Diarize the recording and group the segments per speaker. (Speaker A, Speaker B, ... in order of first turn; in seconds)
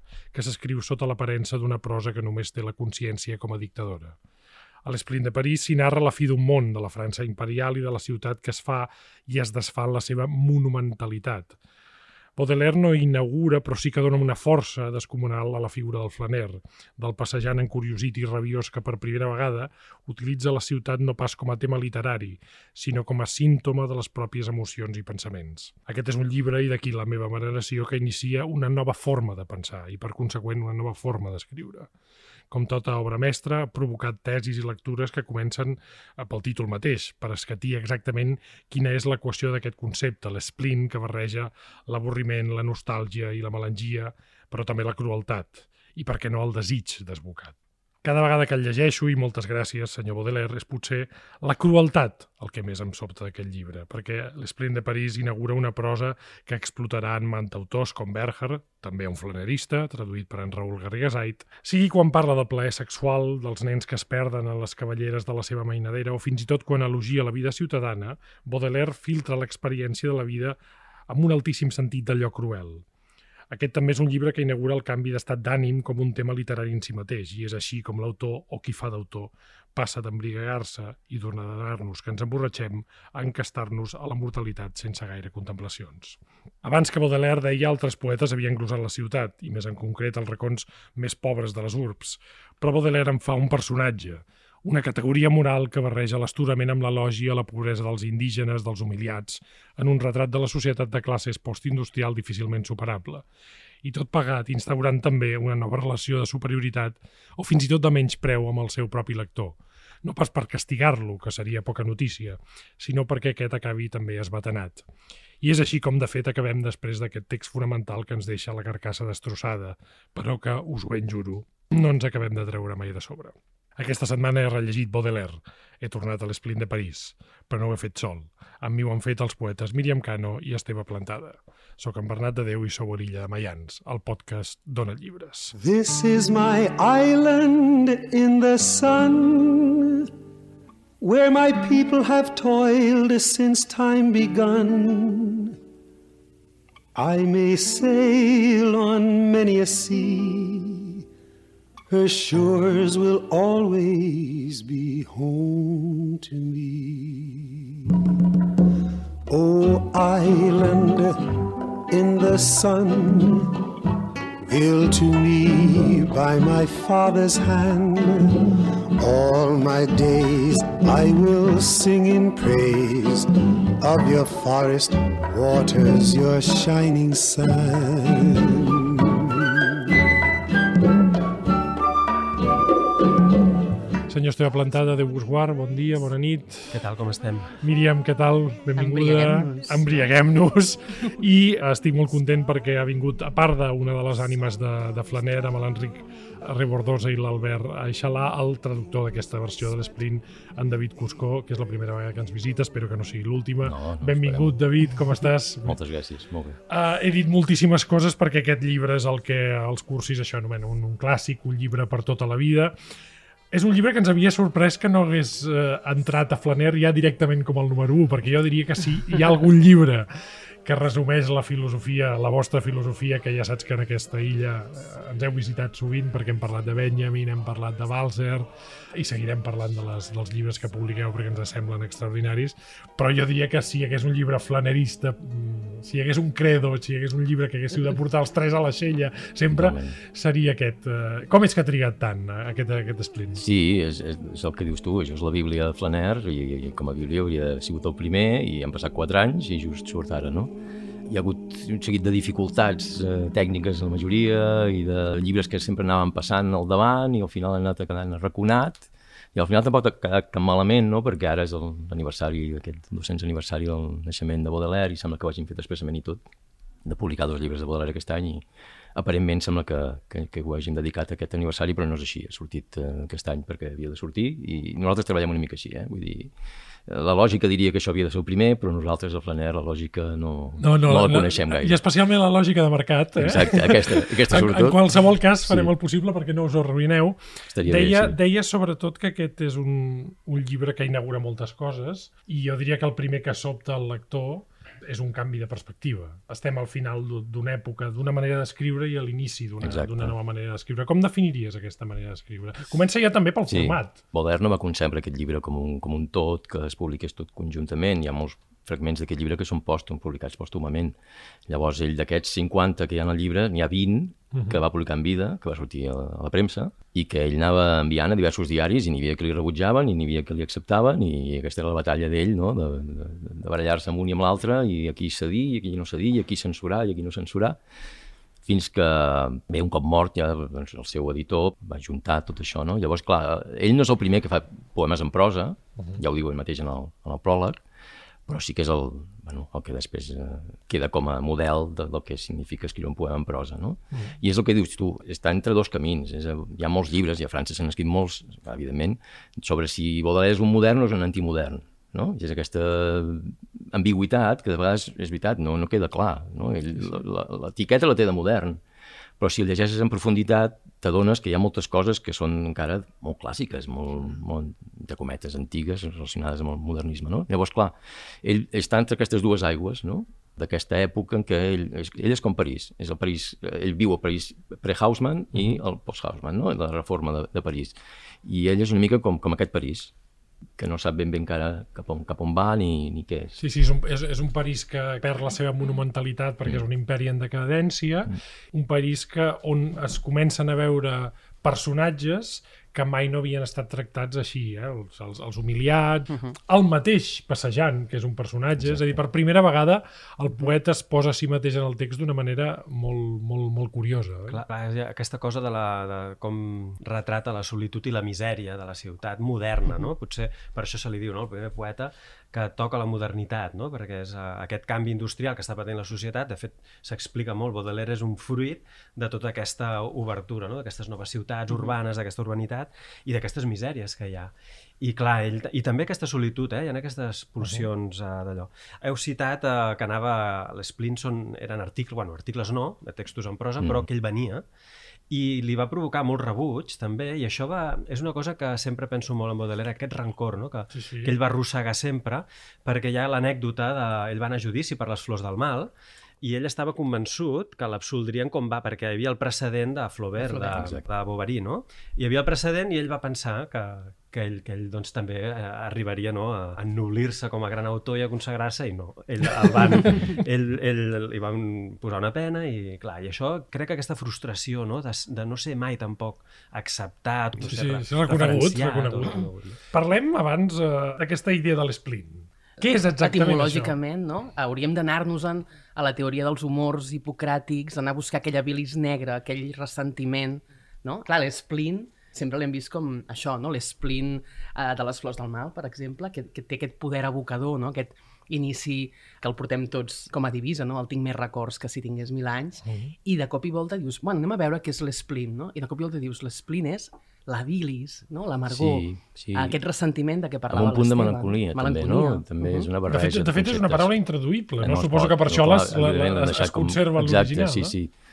Speaker A: 0.3-4.2, 4.8-11.6, 12.4-31.9, 32.5-70.6, 71.1-72.8, 73.5-103.2, 103.8-114.8, 115.4-135.6, 184.1-186.8, 187.6-205.8, 206.7-212.7, 213.5-220.1, 220.7-243.4, 280.6-304.0, 314.3-314.6, 383.4-404.4, 427.4-427.7, 440.7-441.1, 467.4-473.8, 492.6-492.9, 502.9-507.8
Speaker B: 135.6-140.1, 141.0-145.6, 146.9-151.0, 151.9-158.4, 159.3-161.2, 161.9-163.6, 164.5-180.0
Speaker C: 186.7-187.6, 404.3-434.4, 435.1-445.7, 446.2-469.6
Speaker D: 188.8-189.8, 450.2-450.6, 473.0-502.7
Speaker E: 203.6-204.6, 205.7-206.6, 239.5-240.0, 243.3-250.5, 251.1-266.2, 266.9-276.3, 276.9-281.8, 283.2-284.8, 285.5-285.7, 287.5-288.2, 299.6-300.1, 303.5-311.0, 311.5-327.6, 328.4-337.6, 338.3-358.6, 359.2-379.9, 380.6-383.4, 398.6-399.0, 433.6-433.9, 450.5-450.9, 498.5-499.6, 500.5-503.9, 504.6-507.9